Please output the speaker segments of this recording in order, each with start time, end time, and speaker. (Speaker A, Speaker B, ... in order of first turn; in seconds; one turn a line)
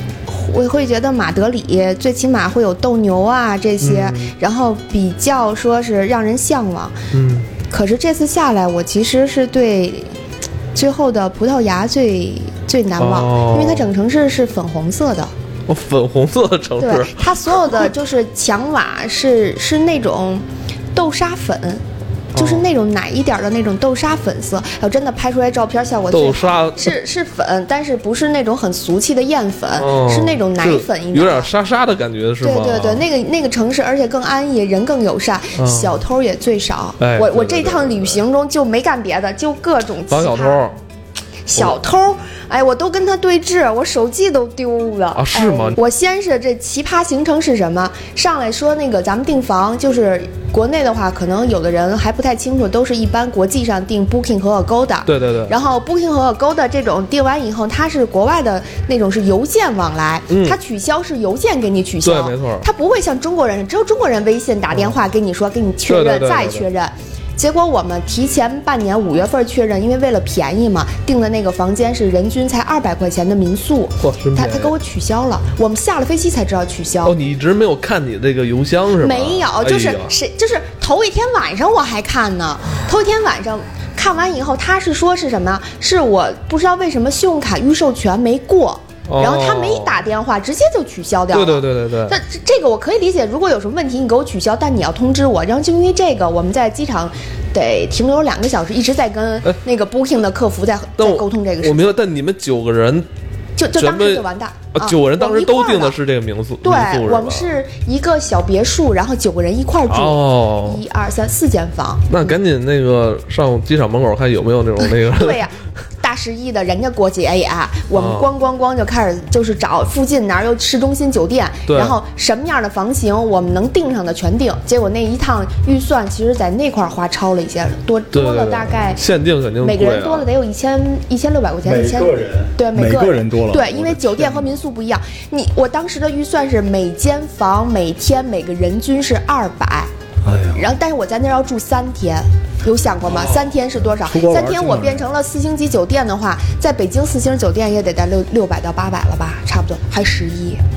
Speaker A: 0.3-7.0
Speaker B: 3.8-4.3
Speaker B: 7.1-7.5
Speaker A: 7.6-10.1
Speaker A: 10.8-15.3
Speaker B: 13.0-13.9
Speaker B: 15.7-17.9
Speaker A: 16.8-21.8
Speaker B: 22.3-22.6
Speaker A: 22.4-31.5
Speaker B: 26.1-27.0
Speaker B: 29.8-33.0
Speaker A: 32.4-40.6
Speaker B: 35.6-36.0
Speaker B: 37.0-38.2
Speaker B: 40.1-40.8
Speaker A: 41.5-77.2
Speaker B: 45.1-45.8
Speaker B: 55.1-55.5
Speaker B: 60.3-60.6
Speaker B: 62.0-62.6
Speaker B: 65.9-66.7
Speaker B: 74.0-74.7
Speaker B: 77.0-80.1
Speaker A: 79.0-102.0
Speaker B: 89.1-90.0
Speaker B: 91.3-92.2
Speaker B: 101.0-103.1
Speaker A: 103.6-106.0
Speaker B: 103.8-107.5
Speaker A: 106.6-112.1
Speaker B: 109.9-110.8
Speaker B: 112.1-115.5
Speaker A: 115.1-129.0
Speaker B: 117.9-118.3
Speaker B: 121.7-122.0
Speaker B: 128.1-130.3
Speaker A: 129.6-139.9
Speaker C: 131.6-134.2
Speaker C: 140.2-140.6
Speaker A: 140.5-150.6
Speaker B: 143.1-143.5
Speaker C: 144.0-145.1